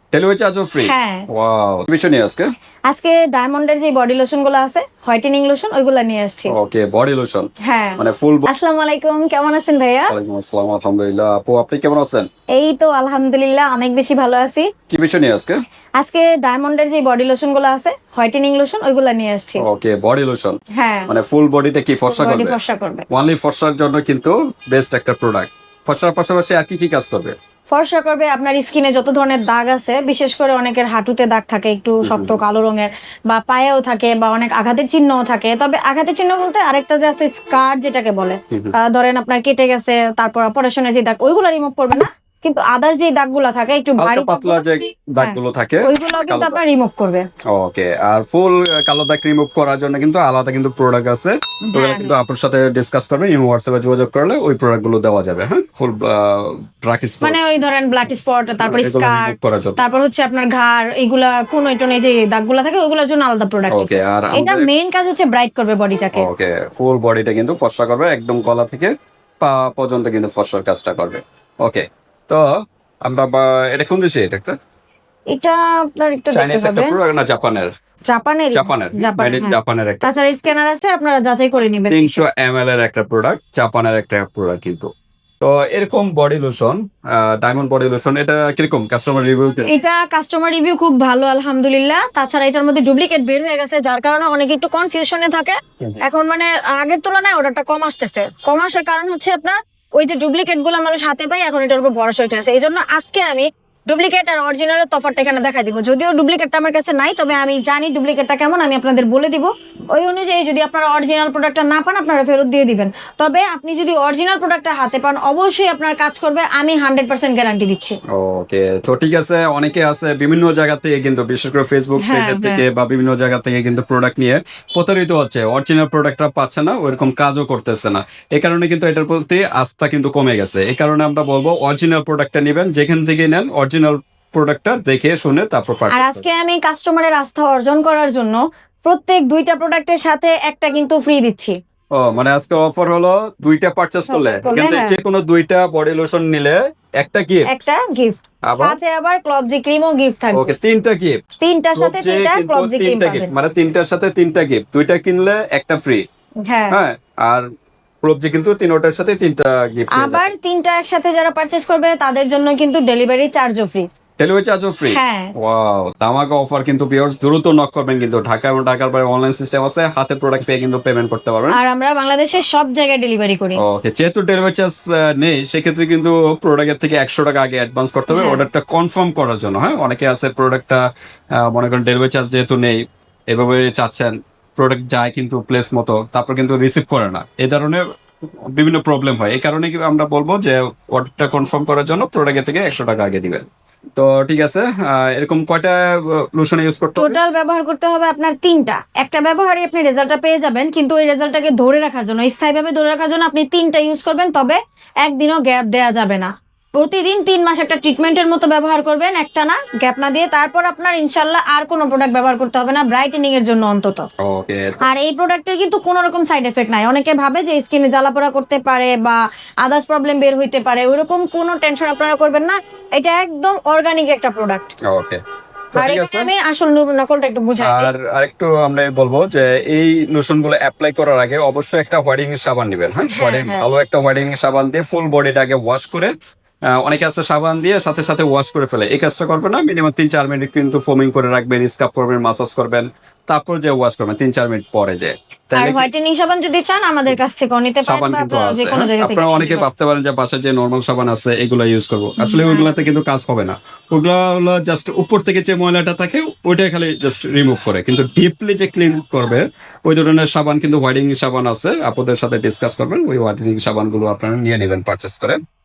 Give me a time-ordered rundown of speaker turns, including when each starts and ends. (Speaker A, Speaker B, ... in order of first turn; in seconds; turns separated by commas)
Speaker A: 0.1-2.5, Speaker B: 0.8-1.2, Speaker B: 2.9-6.5, Speaker A: 6.5-8.5, Speaker B: 7.6-10.1, Speaker A: 10.1-12.3, Speaker B: 12.5-14.7, Speaker A: 14.9-15.6, Speaker B: 16.0-19.6, Speaker A: 19.6-22.6, Speaker B: 20.7-21.1, Speaker B: 22.1-23.1, Speaker A: 23.1-27.4, Speaker B: 27.7-47.2, Speaker A: 32.1-32.4, Speaker A: 44.0-46.6, Speaker A: 47.5-57.4, Speaker B: 51.7-52.1, Speaker B: 57.2-66.3, Speaker A: 58.6-59.8, Speaker A: 63.7-64.7, Speaker A: 66.1-72.5, Speaker A: 73.0-74.6, Speaker B: 75.3-77.0, Speaker A: 76.3-77.7, Speaker B: 78.1-82.2, Speaker A: 78.5-80.0, Speaker A: 81.9-84.9, Speaker A: 85.4-89.7, Speaker B: 89.6-118.0, Speaker A: 118.1-136.2, Speaker B: 122.0-122.6, Speaker B: 135.9-141.6, Speaker A: 141.9-147.5, Speaker B: 144.1-144.9, Speaker B: 147.5-150.5, Speaker A: 148.5-148.8, Speaker A: 150.3-151.2, Speaker B: 151.4-153.3, Speaker A: 151.8-156.0, Speaker B: 156.4-156.7, Speaker A: 156.7-157.4, Speaker A: 158.0-160.3, Speaker B: 159.9-163.8, Speaker A: 164.2-171.6, Speaker B: 164.9-165.3, Speaker B: 171.5-173.6, Speaker A: 173.6-180.8, Speaker B: 178.1-178.4, Speaker A: 181.4-182.8, Speaker A: 183.3-187.8, Speaker A: 188.5-193.4, Speaker A: 194.0-197.2, Speaker B: 196.9-214.1, Speaker A: 214.2-214.8, Speaker B: 214.8-224.7, Speaker A: 224.9-225.2, Speaker A: 225.7-226.3, Speaker B: 225.8-227.9, Speaker A: 227.6-236.1, Speaker B: 233.1-233.6, Speaker A: 236.8-245.9, Speaker B: 245.5-249.7, Speaker A: 247.8-265.4, Speaker B: 252.2-252.8